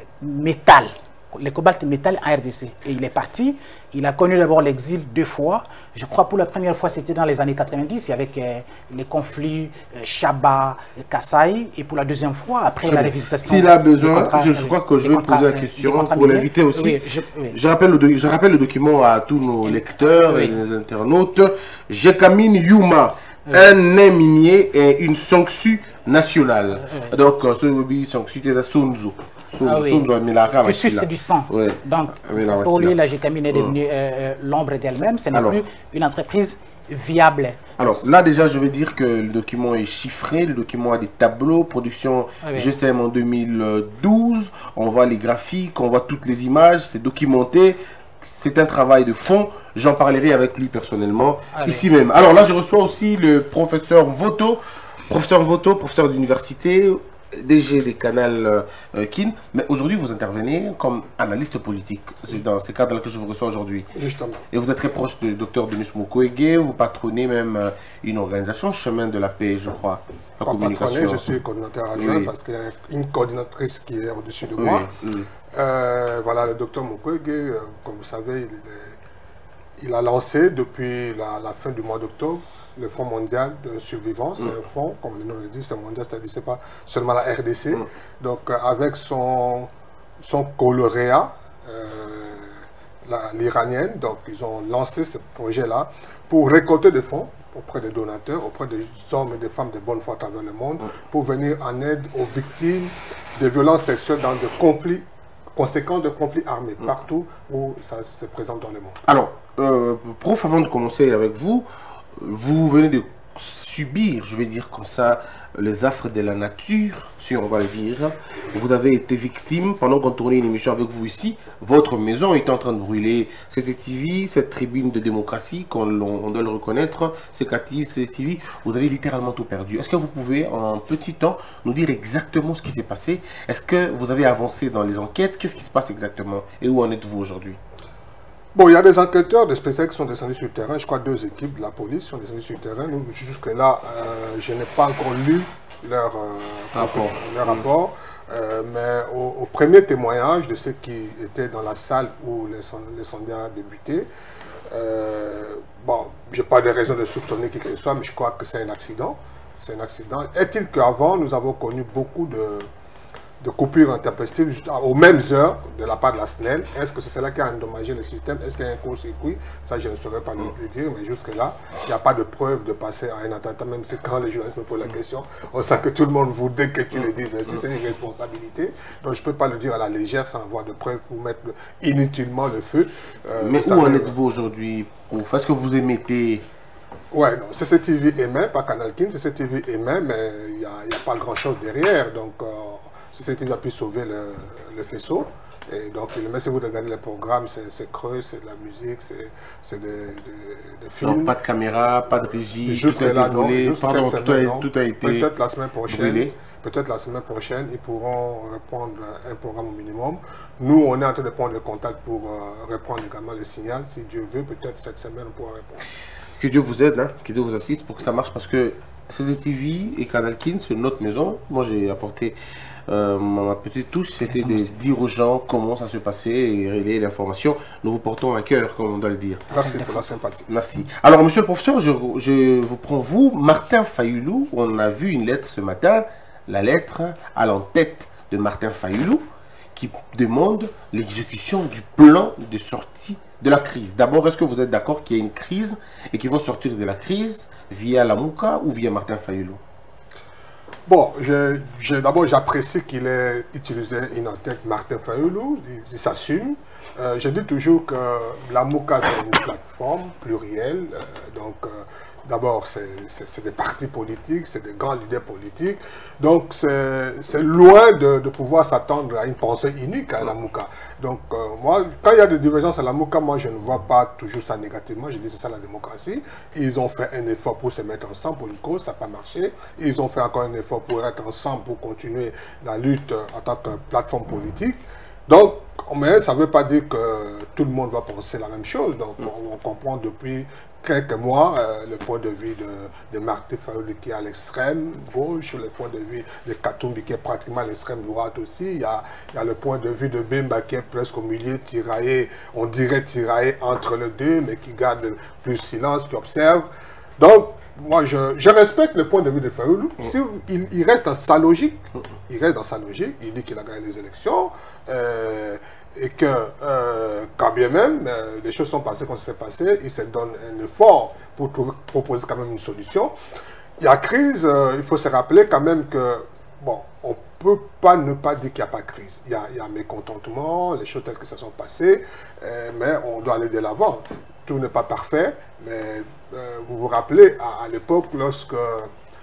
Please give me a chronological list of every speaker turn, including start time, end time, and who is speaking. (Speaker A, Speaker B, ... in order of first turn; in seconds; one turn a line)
Speaker A: 0.2-17.6
Speaker B: 12.9-32.9
Speaker A: 19.6-20.6
Speaker A: 26.8-27.1
Speaker A: 29.6-30.1
Speaker A: 30.6-38.0
Speaker B: 35.3-35.6
Speaker B: 37.8-63.9
Speaker A: 42.4-42.7
Speaker A: 51.5-51.9
Speaker C: 63.9-64.4
Speaker B: 64.5-71.2
Speaker C: 70.4-74.9
Speaker B: 72.0-72.3
Speaker B: 74.6-75.3
Speaker C: 75.5-79.0
Speaker C: 79.8-109.0
Speaker B: 109.0-111.7
Speaker B: 112.2-137.6
Speaker C: 138.5-154.1
Speaker B: 146.7-147.6
Speaker C: 154.7-162.7
Speaker C: 163.4-184.1
Speaker B: 183.4-186.4
Speaker C: 187.1-201.3
Speaker B: 201.0-205.3
Speaker C: 202.6-215.8
Speaker B: 205.9-206.3
Speaker B: 216.4-222.3
Speaker B: 222.9-229.9
Speaker A: 224.2-224.7
Speaker C: 229.5-230.5
Speaker B: 230.5-239.2
Speaker B: 239.7-249.6
Speaker C: 250.9-306.6
Speaker C: 307.2-323.1
Speaker C: 323.8-338.9